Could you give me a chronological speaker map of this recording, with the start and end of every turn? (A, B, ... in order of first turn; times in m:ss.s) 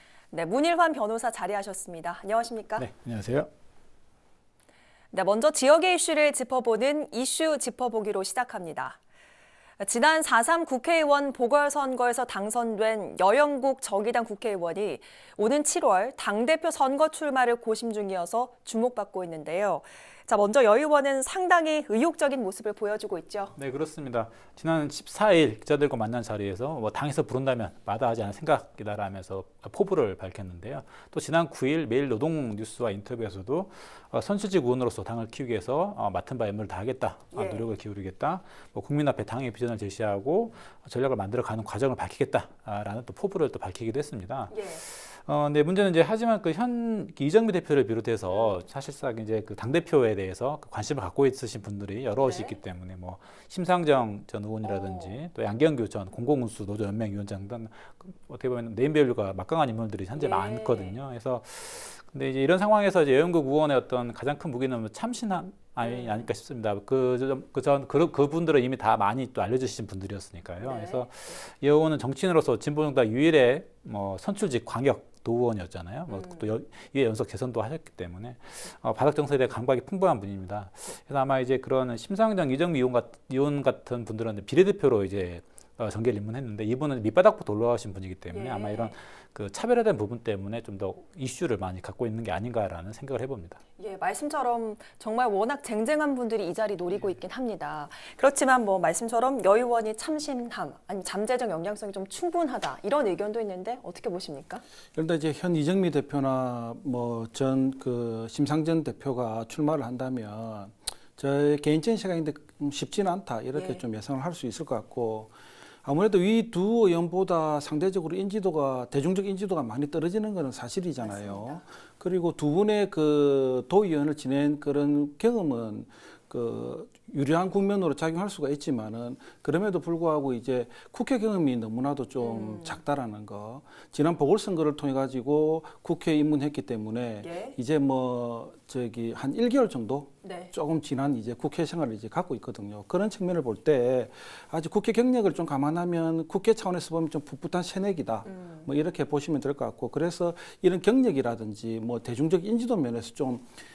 0:00.3-0:02.9 A
0:02.8-0:03.5 B
0:05.1-0:09.0 A
0:09.8-0:23.6 A
0:23.6-1:33.6 B
0:37.3-0:37.7 A
0:44.5-0:44.8 A
0:52.2-0:52.6 A
0:54.6-0:55.2 A
1:00.2-1:01.0 A
1:05.8-1:06.3 A
1:10.6-1:11.1 A
1:16.1-1:16.4 A
1:28.3-1:29.0 A
1:33.8-1:44.6 A
1:45.0-1:55.3 C
1:53.6-1:53.8 A
1:55.8-2:33.5 C
2:01.0-2:01.6 A
2:12.2-2:12.8 A
2:17.2-2:17.6 A
2:20.2-2:20.5 A
2:28.3-2:28.7 A